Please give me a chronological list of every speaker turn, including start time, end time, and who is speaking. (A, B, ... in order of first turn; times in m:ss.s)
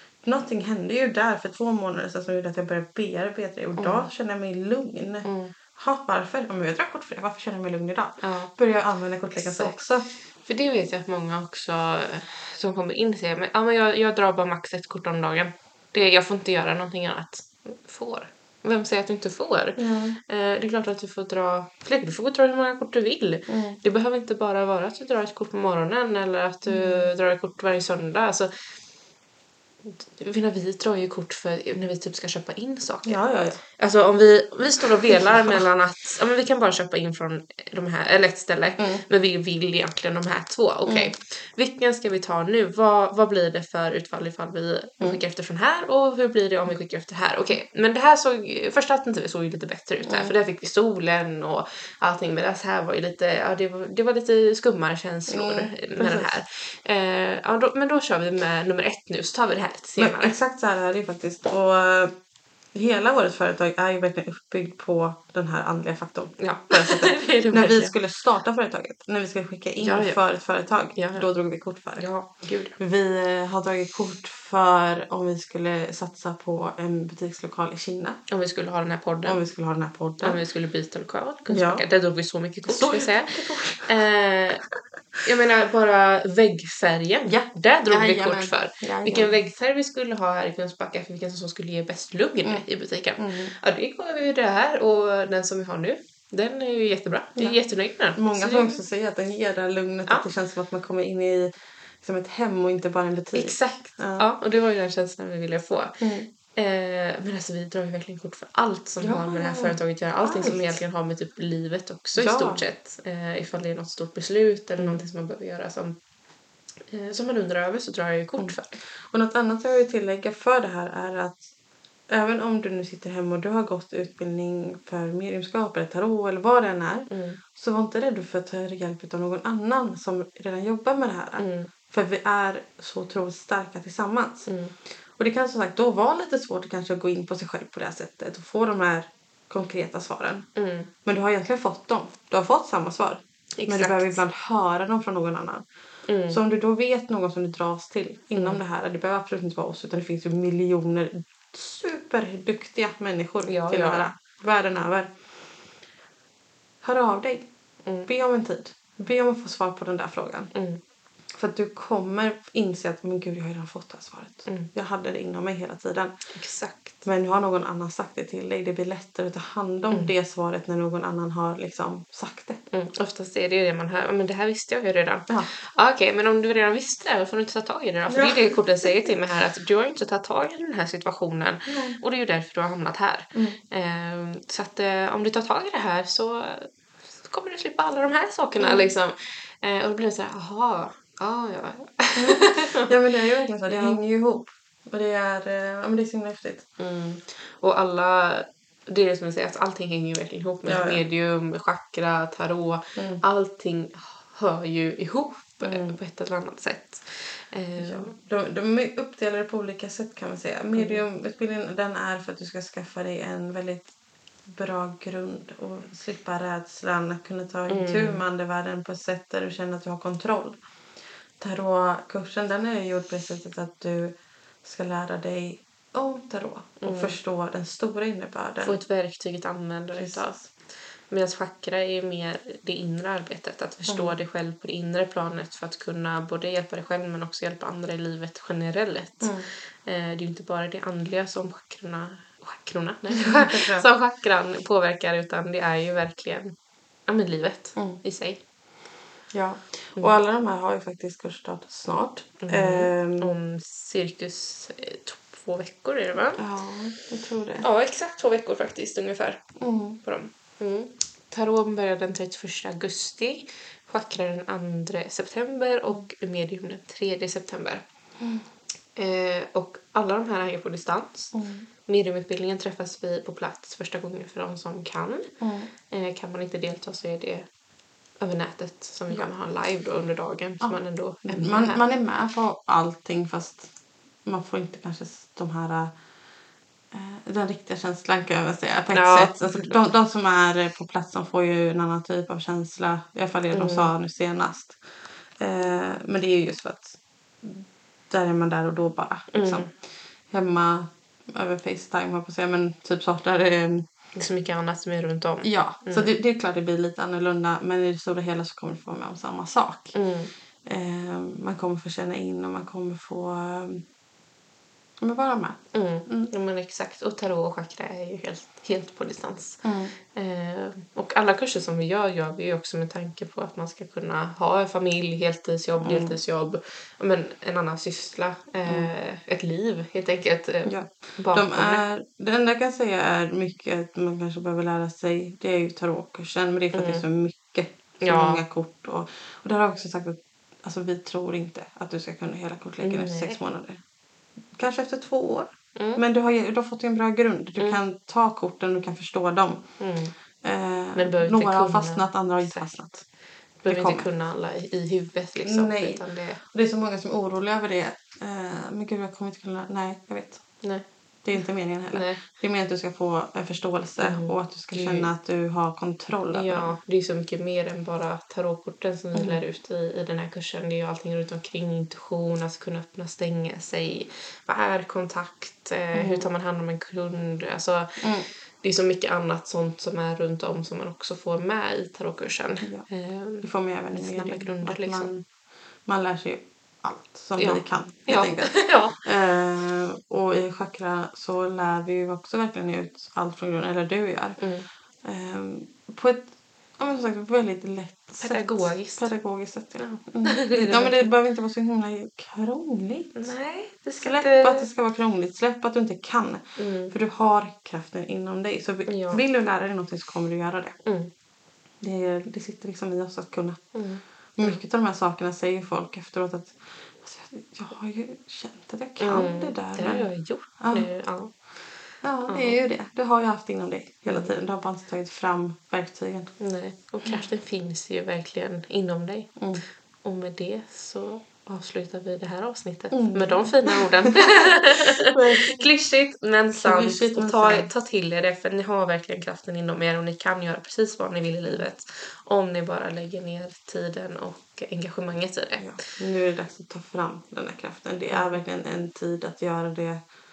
0:00.2-0:10.1 A
0:03.8-0:04.1 B
0:05.2-0:05.5 B
0:08.2-0:08.5 B
0:09.3-0:09.8 B
0:10.3-0:28.6 B
0:19.8-0:20.2 A
0:23.5-0:23.8 A
0:26.7-0:27.1 A
0:29.8-1:00.3 B
0:33.0-0:33.6 A
0:35.1-0:35.6 A
0:38.8-0:39.0 A
0:40.8-0:41.1 A
0:50.0-0:50.3 A
0:55.3-0:56.4 A
1:00.0-1:02.1 A
1:02.7-1:12.1 A
1:06.4-1:07.9 B
1:09.8-1:10.2 B
1:11.0-1:11.3 B
1:12.0-1:12.8 B
1:12.8-1:18.2 A
1:18.3-1:19.4 B
1:19.2-1:20.4 A
1:20.2-1:24.6 B
1:21.5-1:21.8 A
1:22.6-1:23.9 A
1:25.2-1:38.8 B
1:27.3-1:29.4 A
1:33.2-1:33.5 A
1:38.2-1:44.3 A
1:43.3-1:56.0 B
1:46.0-1:46.3 A
1:49.0-1:50.8 A
1:52.1-1:52.6 A
1:54.8-1:55.0 A
1:56.9-1:58.7 B
1:58.4-2:01.5 A
2:02.1-2:14.5 A
2:07.1-2:07.4 B
2:11.4-2:11.7 B
2:14.5-2:14.7 B
2:15.2-2:20.5 A
2:20.6-2:20.9 B
2:21.0-2:25.6 A
2:23.6-2:24.2 B
2:26.1-2:26.4 B
2:26.3-2:35.2 A
2:33.5-2:34.1 B
2:36.8-2:37.5 A
2:38.1-2:40.5 A
2:40.5-2:40.8 B
2:41.3-2:46.2 A
2:46.3-2:47.0 B
2:47.0-2:52.6 A
2:52.7-3:12.9 B
2:58.1-2:58.9 A
3:01.7-3:02.0 A
3:03.3-3:03.6 A
3:08.6-3:08.9 A
3:12.2-3:16.7 A
3:13.7-3:14.0 B
3:16.8-3:28.1 B
3:20.7-3:21.0 A
3:23.0-3:23.2 A
3:25.6-3:26.0 A
3:27.8-3:33.9 A
3:34.5-3:40.6 A
3:37.7-3:38.2 B
3:41.4-3:48.8 A
3:46.8-3:47.2 B
3:48.6-3:50.3 B
3:49.9-3:50.4 A
3:51.1-4:06.6 B
3:53.9-3:54.2 A
3:59.2-3:59.5 A
4:03.1-4:03.9 A
4:07.1-4:08.4 B
4:09.3-4:13.4 A
4:12.4-4:16.4 B
4:16.4-4:17.7 A
4:17.6-4:19.5 B
4:19.6-4:20.0 A
4:20.0-4:27.8 B
4:29.0-4:31.3 B
4:31.3-4:31.7 A
4:31.9-4:35.3 B
4:35.4-4:35.7 A
4:35.9-4:37.5 B
4:38.2-4:41.8 B
4:40.6-4:43.7 A
4:44.2-4:45.9 A
4:46.9-4:54.8 A
4:48.9-4:49.8 B
4:53.5-4:53.9 B
4:55.4-4:59.8 A
4:59.3-4:59.7 B
5:00.3-5:03.9 A
5:04.2-5:06.1 B
5:05.4-5:10.0 A
5:09.9-5:10.3 B
5:10.6-5:13.8 A
5:15.0-5:16.3 A
5:15.7-5:19.6 B
5:19.6-5:20.0 A
5:20.1-5:31.8 B
5:25.8-5:26.2 A
5:30.7-5:43.8 A
5:36.7-5:37.0 B
5:38.0-5:38.4 B
5:42.8-5:43.4 B
5:44.5-5:49.7 A
5:45.8-5:46.0 B
5:49.8-5:50.1 B
5:50.4-5:53.0 A
5:51.0-5:52.6 B
5:53.6-5:56.4 B
5:53.7-5:54.1 A
5:55.4-6:00.4 A
6:01.2-6:06.7 A
6:01.9-6:02.2 B
6:04.0-6:05.1 B
6:06.3-6:18.1 B
6:09.1-6:09.4 A
6:15.9-6:16.3 A
6:18.0-6:18.3 A
6:18.6-6:25.2 B
6:22.6-6:22.9 A
6:23.4-6:25.1 A
6:25.8-6:34.4 A
6:27.4-6:29.0 B
6:34.4-6:34.6 B
6:35.0-6:43.3 A
6:38.2-6:39.1 B
6:39.8-6:41.1 B
6:43.2-6:44.7 B
6:44.0-6:50.8 A
6:46.6-6:46.9 B
6:48.9-6:49.2 B
6:50.8-6:51.1 B
6:51.8-6:53.7 A
6:53.7-6:54.6 B
6:54.4-7:00.9 A
6:59.0-7:01.3 B
7:02.0-7:06.3 A
7:02.3-7:02.6 B
7:04.1-7:04.3 B
7:06.4-7:09.4 B
7:09.4-7:09.6 A
7:10.0-7:25.8 B
7:12.9-7:15.6 A
7:16.5-7:17.7 A
7:25.6-7:30.0 A
7:28.1-7:28.4 B